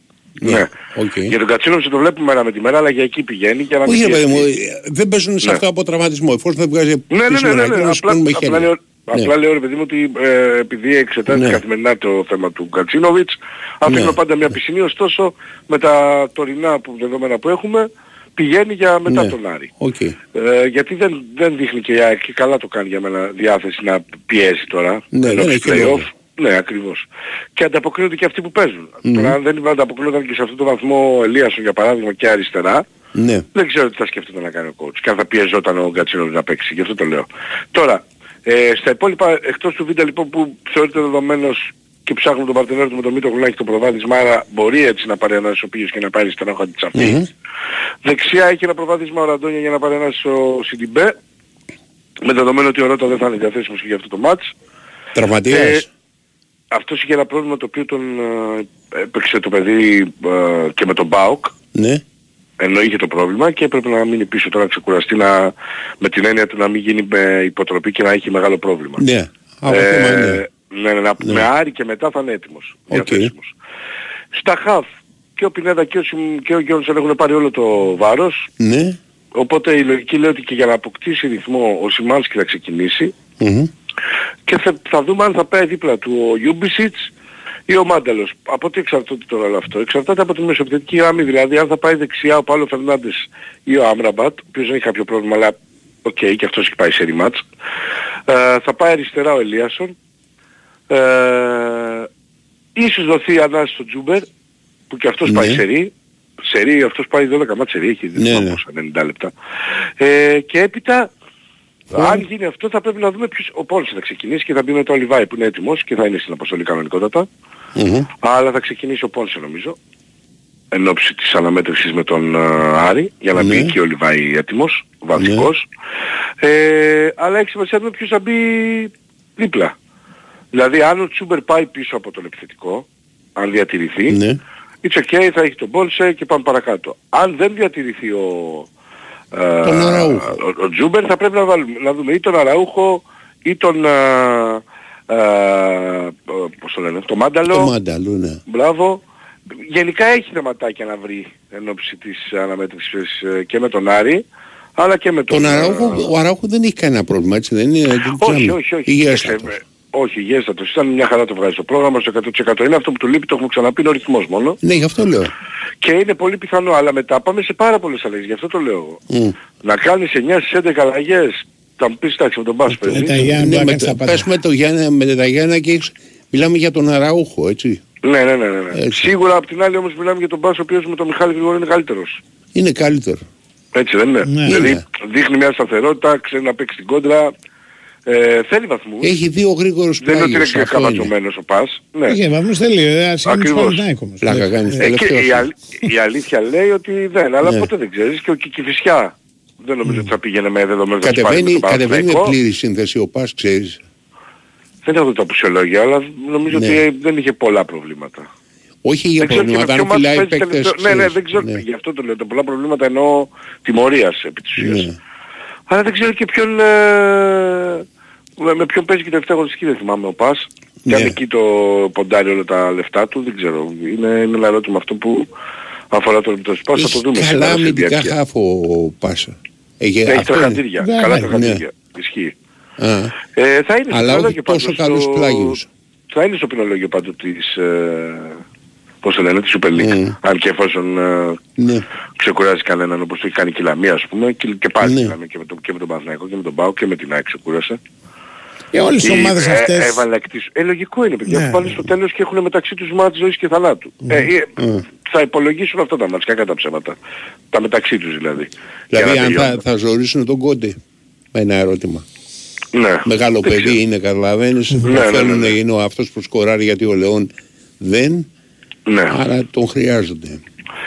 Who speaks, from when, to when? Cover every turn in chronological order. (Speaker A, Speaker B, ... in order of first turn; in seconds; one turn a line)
Speaker A: 0.4-1.3
Speaker B: 0.4-0.7
Speaker B: 1.3-4.5
Speaker A: 3.9-9.3
Speaker B: 7.1-19.7
Speaker A: 11.3-11.6
Speaker A: 13.9-14.2
Speaker A: 19.1-20.2
Speaker B: 20.3-32.9
Speaker A: 25.1-26.1
Speaker A: 29.1-29.4
Speaker A: 33.1-33.5
Speaker B: 33.5-47.2
Speaker A: 47.0-47.3
Speaker B: 48.0-51.1
Speaker B: 52.2-54.5
Speaker A: 55.1-55.9
Speaker B: 55.5-55.8
Speaker B: 56.7-61.5
Speaker A: 61.7-62.0
Speaker B: 62.6-69.0
Speaker A: 69.0-70.4
Speaker B: 69.7-73.5
Speaker A: 72.9-73.3
Speaker B: 74.3-74.9
Speaker B: 75.4-78.5
Speaker A: 78.6-79.0
Speaker B: 79.4-83.2
Speaker A: 83.4-83.7
Speaker B: 84.5-87.1
Speaker B: 87.7-97.4
Speaker B: 98.3-100.0
Speaker B: 100.9-102.1
Speaker B: 102.8-104.3
Speaker B: 104.9-105.9
Speaker A: 105.2-105.6
Speaker B: 106.5-109.3
Speaker A: 108.2-108.6
Speaker B: 110.0-111.1
Speaker B: 111.9-117.3
Speaker A: 111.9-112.2
Speaker A: 117.8-118.1
Speaker B: 118.2-119.8
Speaker B: 120.7-125.6
Speaker A: 123.4-123.7
Speaker A: 125.2-125.5
Speaker B: 126.4-129.7
Speaker B: 130.5-132.8
Speaker B: 133.4-134.2
Speaker A: 134.1-134.4
Speaker B: 134.8-138.7
Speaker B: 139.3-147.7
Speaker A: 139.6-140.3
Speaker A: 147.5-148.4
Speaker B: 148.5-149.0
Speaker B: 149.7-154.2
Speaker B: 154.8-156.1
Speaker A: 155.3-159.5
Speaker B: 158.2-164.6
Speaker A: 164.6-165.3
Speaker B: 165.8-169.0
Speaker A: 169.1-169.3
Speaker B: 169.6-173.4
Speaker C: 172.8-174.3
Speaker A: 173.3-177.8
Speaker B: 178.0-182.2
Speaker A: 178.7-179.1
Speaker A: 182.5-183.2
Speaker B: 183.7-187.3
Speaker C: 184.3-184.6
Speaker A: 184.5-184.8
Speaker B: 188.1-189.1
Speaker A: 189.0-191.1
Speaker B: 190.0-192.2
Speaker C: 192.1-194.8
Speaker B: 193.2-193.8
Speaker A: 194.2-195.5
Speaker B: 194.8-202.3
Speaker A: 201.0-203.8
Speaker B: 204.8-208.3
Speaker A: 206.5-206.8
Speaker A: 208.8-211.6
Speaker B: 209.2-214.9
Speaker A: 214.6-215.0
Speaker B: 215.7-217.8
Speaker B: 218.4-225.3
Speaker A: 220.9-221.2
Speaker B: 225.9-228.1
Speaker A: 226.8-230.6
Speaker B: 230.1-232.3
Speaker C: 230.8-231.3
Speaker A: 231.3-231.6
Speaker A: 232.8-233.1
Speaker B: 233.3-235.6
Speaker A: 233.9-235.7
Speaker B: 236.1-238.4
Speaker B: 239.0-241.4
Speaker A: 239.8-240.2
Speaker A: 241.6-241.8
Speaker B: 242.2-247.8
Speaker A: 244.8-245.1
Speaker C: 248.7-250.0
Speaker B: 249.0-254.5
Speaker C: 251.3-251.7
Speaker A: 254.6-254.8
Speaker B: 255.1-257.0
Speaker B: 257.5-259.6
Speaker A: 258.9-260.8
Speaker A: 261.3-262.1
Speaker B: 262.7-263.8
Speaker A: 263.1-268.3
Speaker B: 264.8-265.6
Speaker B: 268.9-269.2
Speaker A: 269.1-270.4